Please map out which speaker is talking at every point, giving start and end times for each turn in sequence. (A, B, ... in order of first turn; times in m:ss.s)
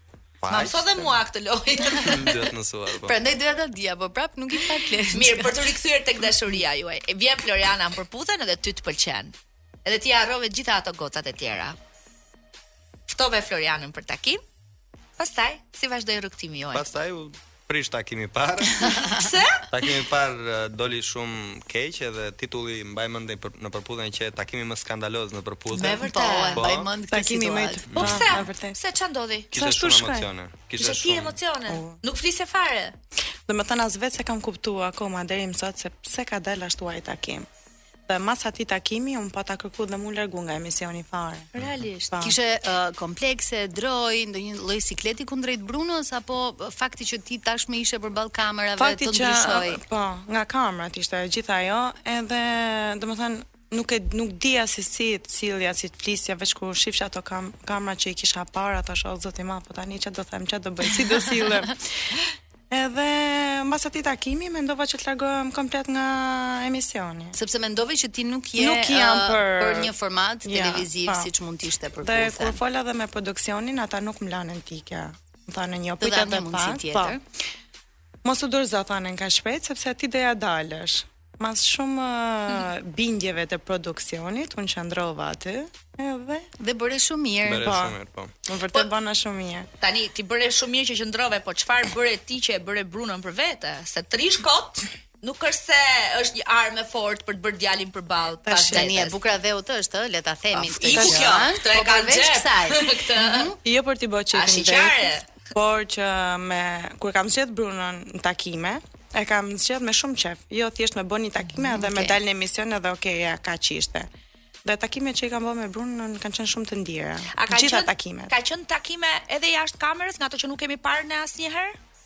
0:00.4-0:01.2 A
0:00.5-0:02.3 B
0:02.0-0:03.2 A
0:03.0-0:05.8 C
0:05.1-0:09.3 B
0:09.8-0:11.8 B
0:13.1-0:14.4 B
0:15.2-0:16.9 B
0:16.7-0:18.9 A
0:18.8-0:19.2 C
0:19.2-0:19.7 B
0:19.7-0:27.0 A
0:25.8-0:26.7 B
0:25.8-0:28.0 C
0:27.1-0:28.8 D
0:27.9-0:28.3 A
0:28.0-0:29.5 B
0:29.5-0:31.4 A
0:29.6-0:30.3 D
0:30.8-0:33.0 B
0:31.7-0:32.0 D
0:33.5-0:37.5 D
0:38.1-0:41.5 D
0:41.5-0:42.2 B
0:41.6-0:41.8 A
0:42.1-0:42.4 D
0:42.2-0:49.8 C
0:48.8-1:02.2 D
1:01.0-1:01.7 C
1:02.7-1:07.4 D
1:07.4-1:12.6 C
1:08.6-1:09.9 D
1:10.4-1:11.3 D
1:12.0-1:17.2 D
1:16.0-1:17.2 C
1:18.2-1:26.5 D
1:26.6-1:27.7 C
1:27.4-1:28.3 A
1:27.6-1:29.7 D
1:29.8-1:39.2 B
1:38.5-1:38.9 D
1:38.7-1:43.6 C
1:40.8-1:43.5 B
1:40.9-1:41.3 D
1:43.6-1:54.1 D
1:44.3-1:45.3 B
1:51.6-1:52.2 C
1:54.6-1:58.3 D
1:57.3-2:01.8 B